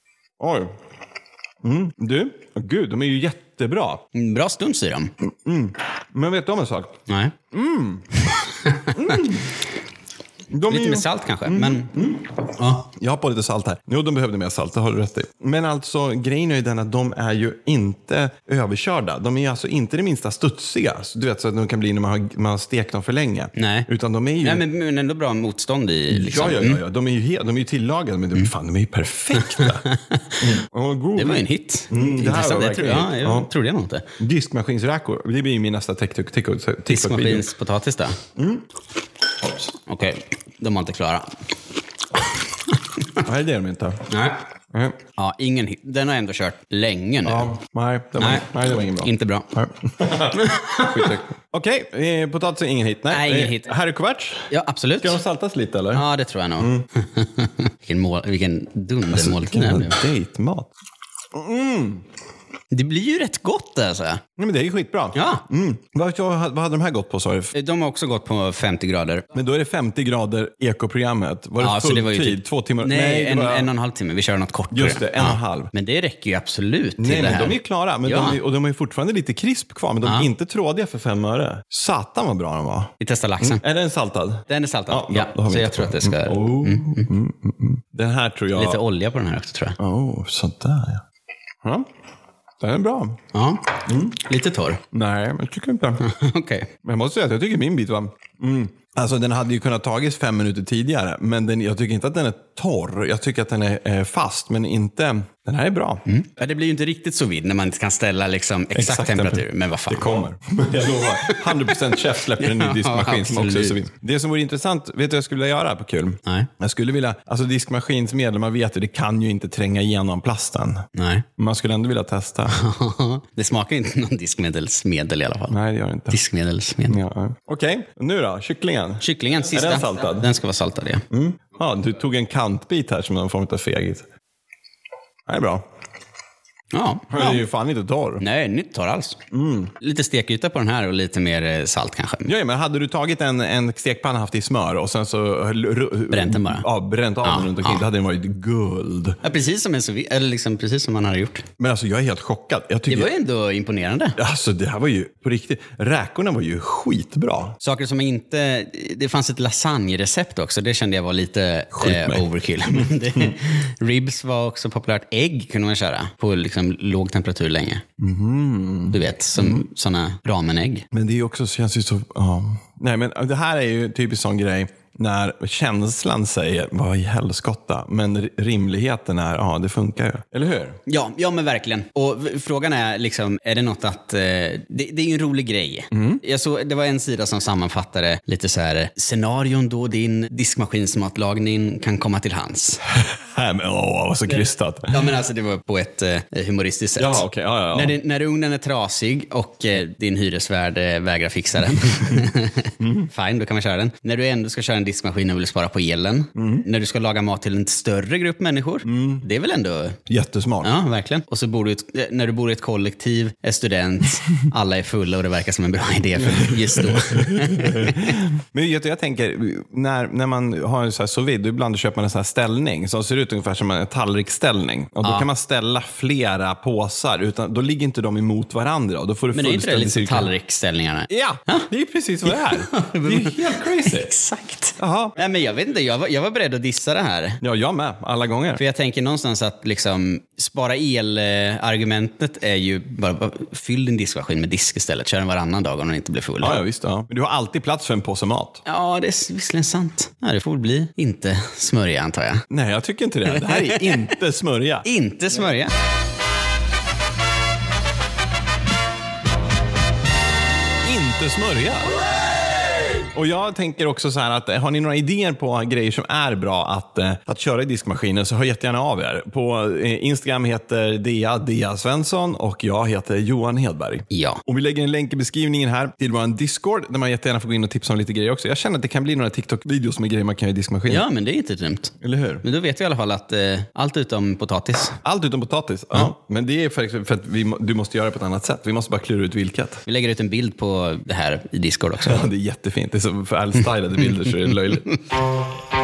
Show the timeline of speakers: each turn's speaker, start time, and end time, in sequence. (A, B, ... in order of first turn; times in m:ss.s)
0:00.4-0:00.7 A
0:01.6-0:04.0 A
0:04.2-0:05.1 B
0:05.2-0:08.2 A
0:07.1-0:07.4 B
0:08.3-0:09.4 B
0:08.9-0:09.5 A
0:10.5-0:24.6 A
0:10.7-0:11.9 B
0:12.4-0:12.9 B
0:23.6-0:23.9 B
0:24.4-0:26.8 B
0:26.1-0:29.9 A
0:29.3-0:30.6 B
0:30.4-0:33.5 A
0:31.2-0:34.1 B
0:34.2-0:37.5 A
0:36.9-0:38.2 B
0:38.4-0:38.6 A
0:39.4-0:39.7 A
0:39.8-0:41.3 B
0:42.7-0:43.2 B
0:43.2-0:44.1 A
0:44.1-0:44.4 B
0:45.2-0:47.5 B
0:47.2-0:56.1 A
0:48.2-0:49.5 B
0:50.3-0:51.2 B
0:53.1-0:53.7 B
0:54.5-0:55.2 B
0:55.9-1:00.1 B
0:56.6-0:56.9 A
0:59.1-1:00.7 A
1:01.3-1:02.0 A
1:02.7-1:04.2 B
1:04.4-1:07.5 A
1:05.2-1:05.4 B
1:07.5-1:09.3 B
1:09.3-1:13.7 A
1:11.6-1:18.4 B
1:14.7-1:15.7 A
1:17.0-1:28.8 A
1:20.0-1:20.3 B
1:23.0-1:23.6 B
1:24.5-1:27.1 B
1:28.6-1:29.8 B
1:29.8-1:31.0 A
1:32.6-1:33.2 A
1:33.3-1:34.8 B
1:33.9-1:34.2 A
1:34.9-1:36.1 A
1:36.0-1:36.7 B
1:36.8-1:46.1 A
1:46.1-1:50.1 B
1:48.7-2:02.6 A
1:51.0-1:53.8 B
2:01.0-2:01.3 B
2:02.5-2:05.6 B
2:05.5-2:06.2 A
2:06.1-2:07.0 B
2:06.9-2:10.3 A
2:09.0-2:11.0 B
2:11.1-2:14.0 A
2:15.3-2:15.6 A
2:16.7-2:17.4 B
2:17.1-2:18.2 A
2:18.2-2:19.2 B
2:19.3-2:19.7 A
2:19.8-2:22.3 B
2:22.3-2:29.2 A
2:26.1-2:26.7 B
2:27.2-2:27.8 B
2:29.2-2:31.5 B
2:31.6-2:33.1 A
2:32.9-2:34.2 B
2:34.2-2:37.6 A
2:37.6-2:47.8 B
2:41.8-2:43.4 A
2:48.0-2:49.7 A
2:48.9-2:50.9 B
2:50.9-3:00.8 A
3:00.9-3:12.8 B
3:05.9-3:06.2 A
3:12.9-3:15.1 A
3:14.3-3:30.0 B
3:17.0-3:18.0 A
3:22.8-3:23.1 A
3:26.4-3:26.7 A
3:28.8-3:29.2 A
3:30.1-3:30.8 A
3:30.6-3:38.2 B
3:36.2-3:50.3 A
3:49.3-3:51.7 B
3:51.1-3:54.1 A
3:52.2-3:57.4 B
3:54.8-3:55.2 A
3:57.4-3:58.6 A
3:58.6-4:06.6 B
4:06.4-4:08.6 A
4:08.7-4:12.5 B
4:12.5-4:14.9 A
4:13.3-4:14.2 B
4:14.8-4:15.7 B
4:20.8-4:22.0 A
4:23.1-4:41.0 A
4:34.1-4:34.4 B
4:40.9-4:45.0 B
4:42.0-4:42.4 A
4:45.0-4:49.8 A
4:49.9-4:52.3 B
4:52.0-4:54.9 A
4:54.0-4:55.0 B